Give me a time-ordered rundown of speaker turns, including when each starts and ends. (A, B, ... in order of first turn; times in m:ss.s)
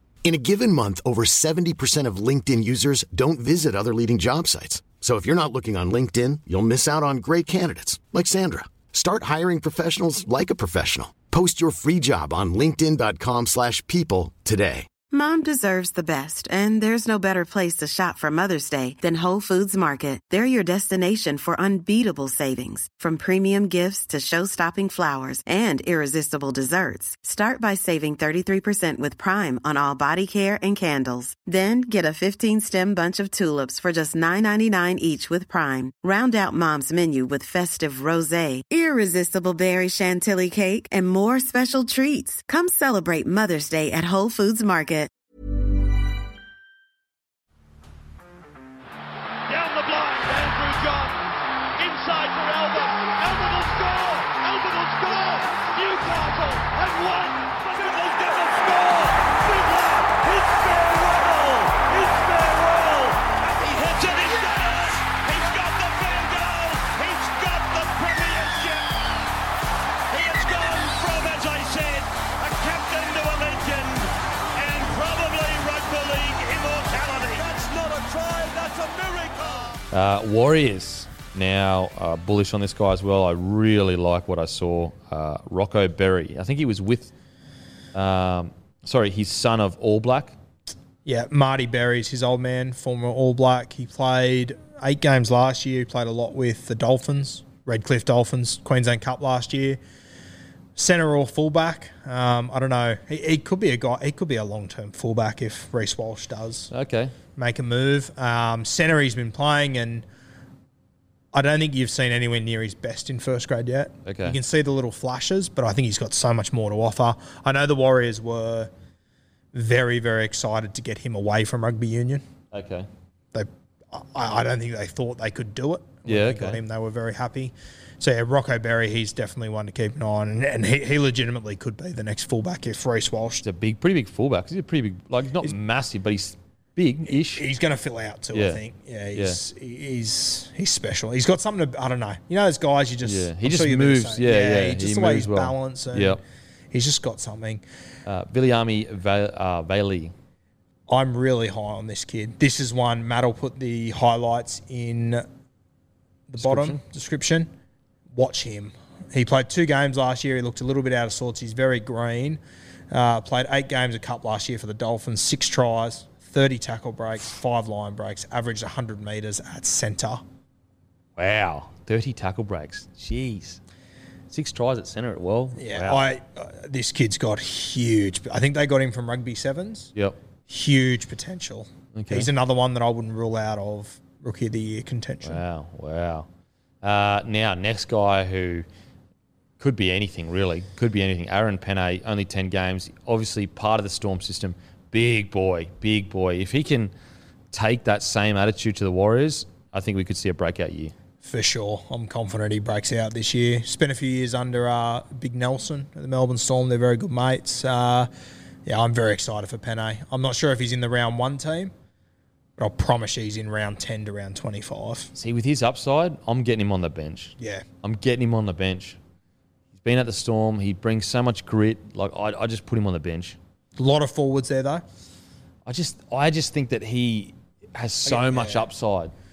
0:00.2-0:14.9 A
0:15.1-0:45.1 B
0:49.5-0:51.2 C
0:51.8-1:08.9 C
1:10.1-1:19.8 C
1:19.9-1:27.1 D
1:27.9-1:30.4 D
1:31.0-1:39.8 E
1:40.8-1:46.7 E
1:46.7-1:47.2 D
1:47.4-1:50.0 E
1:51.3-1:58.7 E
1:54.0-1:54.4 D
1:59.5-2:02.2 E
2:02.5-2:02.9 D
2:03.3-2:13.4 E
2:06.1-2:06.6 D
2:13.4-2:17.4 D
2:17.1-2:26.2 E
2:18.3-2:18.6 D
2:19.2-2:19.4 D
2:23.0-2:26.2 D
2:26.7-2:27.6 E
2:28.1-2:30.1 D
2:30.9-2:35.2 E
2:36.3-2:37.5 E
2:36.4-2:36.8 D
2:38.1-2:42.4 E
2:42.9-2:50.2 E
2:51.2-2:53.6 D
2:54.3-2:56.0 D
2:55.6-2:59.9 E
3:00.5-3:05.4 E
3:02.0-3:02.3 D
3:05.2-3:06.3 D
3:06.8-3:08.7 D
3:09.6-3:16.9 D
3:17.5-3:20.9 D
3:21.2-3:28.1 E
3:28.7-3:31.7 E
3:32.6-3:35.1 E
3:35.2-3:39.0 D
3:37.4-3:37.6 E
3:39.8-3:43.4 D
3:43.8-3:44.8 E
3:45.7-3:49.1 D
3:48.0-3:48.6 E